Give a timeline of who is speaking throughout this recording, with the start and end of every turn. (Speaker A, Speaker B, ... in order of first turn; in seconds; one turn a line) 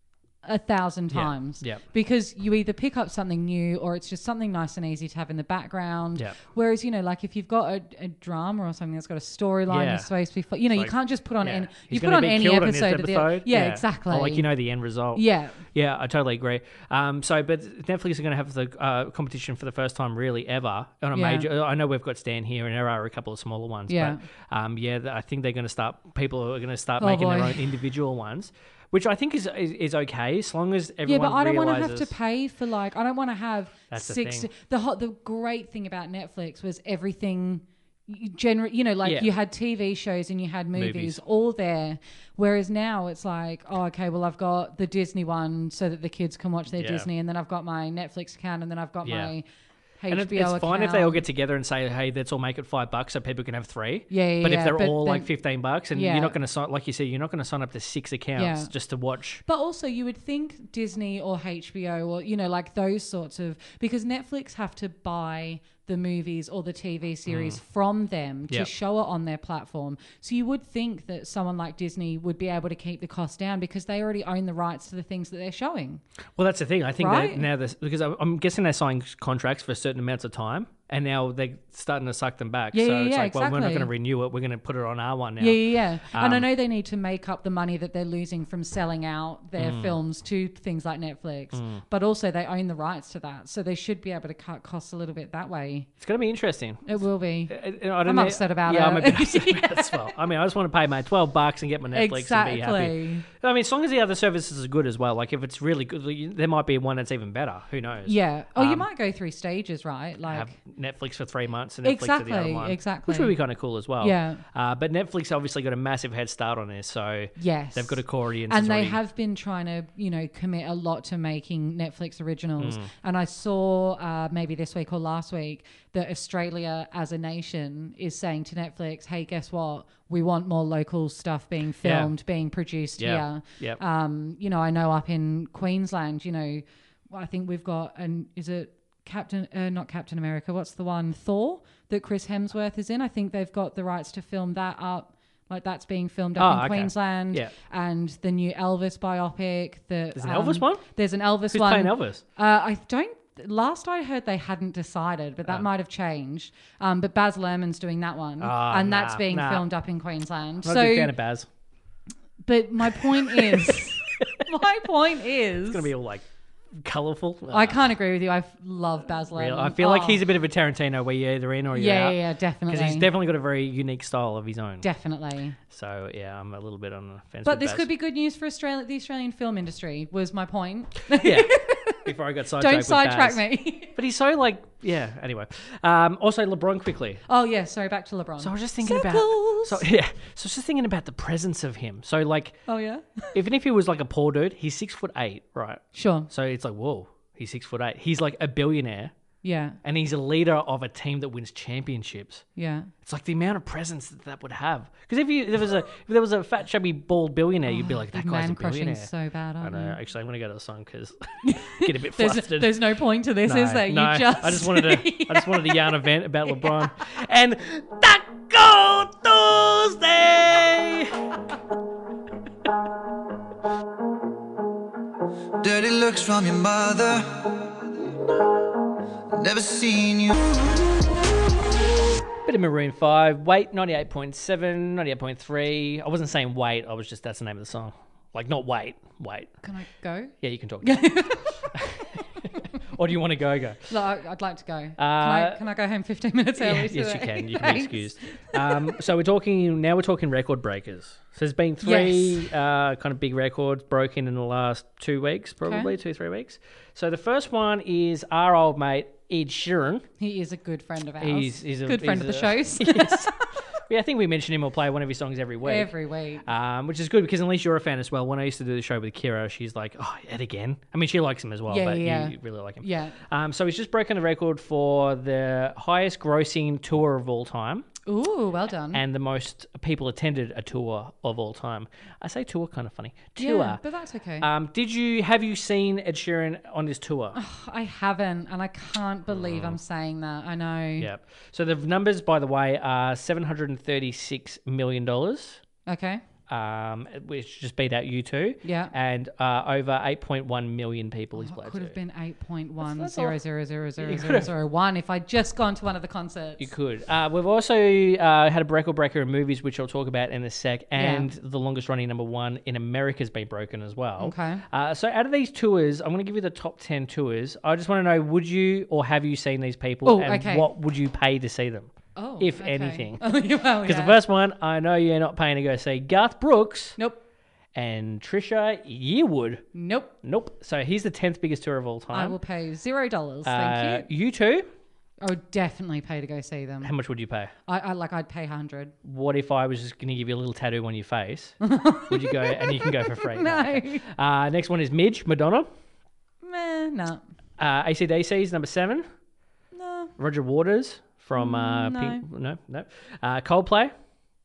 Speaker A: 0.4-14.5
Speaker B: 1.1-1.8
Speaker B: 9.7-10.1
Speaker B: 10.7-32.1
Speaker A: 15.1-15.6
Speaker A: 21.1-21.5
Speaker A: 23.9-24.2
Speaker A: 27.0-27.6
Speaker A: 31.0-49.4
Speaker B: 33.9-34.5
Speaker B: 39.0-39.3
Speaker B: 40.7-41.2
Speaker B: 46.8-47.1
Speaker B: 49.0-49.3
Speaker A: 50.0-51.2
Speaker B: 50.1-59.4
Speaker A: 54.1-55.3
Speaker A: 55.9-56.4
Speaker A: 58.4-58.7
Speaker A: 59.4-76.0
Speaker B: 67.3-67.6
Speaker B: 76.4-86.5
Speaker A: 77.0-77.5
Speaker A: 82.7-83.9
Speaker A: 85.4-95.9
Speaker B: 89.6-90.0
Speaker B: 91.5-91.8
Speaker B: 96.0-108.9
Speaker A: 96.9-100.1
Speaker A: 101.9-103.2
Speaker A: 108.0-110.5
Speaker B: 110.3-119.0
Speaker A: 111.8-113.4
Speaker A: 114.0-114.4
Speaker A: 117.4-161.1
Speaker B: 122.6-122.9
Speaker B: 131.8-132.1
Speaker B: 133.0-133.8
Speaker B: 146.4-147.5
Speaker B: 150.1-150.8
Speaker B: 151.5-152.2
Speaker B: 158.4-159.7
Speaker B: 160.6-161.5
Speaker A: 162.4-165.9
Speaker B: 162.9-164.4
Speaker B: 165.7-166.2
Speaker B: 166.8-167.8
Speaker A: 167.5-170.2
Speaker B: 169.3-174.9
Speaker A: 171.7-173.1
Speaker A: 174.8-175.6
Speaker B: 175.7-177.9
Speaker A: 177.4-183.9
Speaker B: 181.1-187.2
Speaker A: 187.2-189.9
Speaker B: 188.4-192.6
Speaker A: 192.7-193.4
Speaker B: 193.3-199.1
Speaker A: 195.9-196.3
Speaker A: 199.4-199.8
Speaker B: 199.8-202.4
Speaker A: 202.6-202.9
Speaker B: 203.0-212.8
Speaker A: 207.7-210.0
Speaker A: 211.4-216.9
Speaker B: 213.4-221.4
Speaker C: 225.6-227.8
Speaker C: 229.3-230.5
Speaker B: 232.4-239.6
Speaker A: 239.6-241.7
Speaker B: 240.4-243.9
Speaker A: 243.9-249.0
Speaker B: 245.0-245.6
Speaker B: 246.6-260.1
Speaker A: 251.8-252.5
Speaker A: 255.6-255.9
Speaker A: 260.2-263.4
Speaker B: 261.2-265.9
Speaker A: 265.6-266.4
Speaker B: 266.4-277.9
Speaker A: 271.7-273.1
Speaker A: 278.1-279.0
Speaker B: 278.9-283.8
Speaker A: 283.4-284.5
Speaker B: 284.4-287.4
Speaker A: 287.3-291.1
Speaker B: 289.3-289.8
Speaker B: 291.0-295.6
Speaker A: 295.9-296.2
Speaker B: 296.5-302.0
Speaker A: 298.6-298.9
Speaker A: 301.3-306.7
Speaker B: 302.8-303.4
Speaker B: 304.0-304.5
Speaker B: 306.6-323.3
Speaker A: 310.9-311.3
Speaker A: 314.2-314.6
Speaker A: 320.0-320.7
Speaker A: 322.1-324.2
Speaker B: 323.8-327.0
Speaker A: 327.0-327.2
Speaker B: 327.7-329.6
Speaker A: 329.7-330.1
Speaker B: 330.2-332.4
Speaker A: 332.1-334.1
Speaker B: 333.4-334.7
Speaker A: 335.2-336.9
Speaker B: 336.8-337.5
Speaker A: 337.6-338.9
Speaker B: 339.0-345.7
Speaker A: 341.6-344.1
Speaker A: 346.4-347.2
Speaker B: 347.6-349.1
Speaker A: 349.7-350.1
Speaker B: 350.2-353.9
Speaker A: 351.3-352.2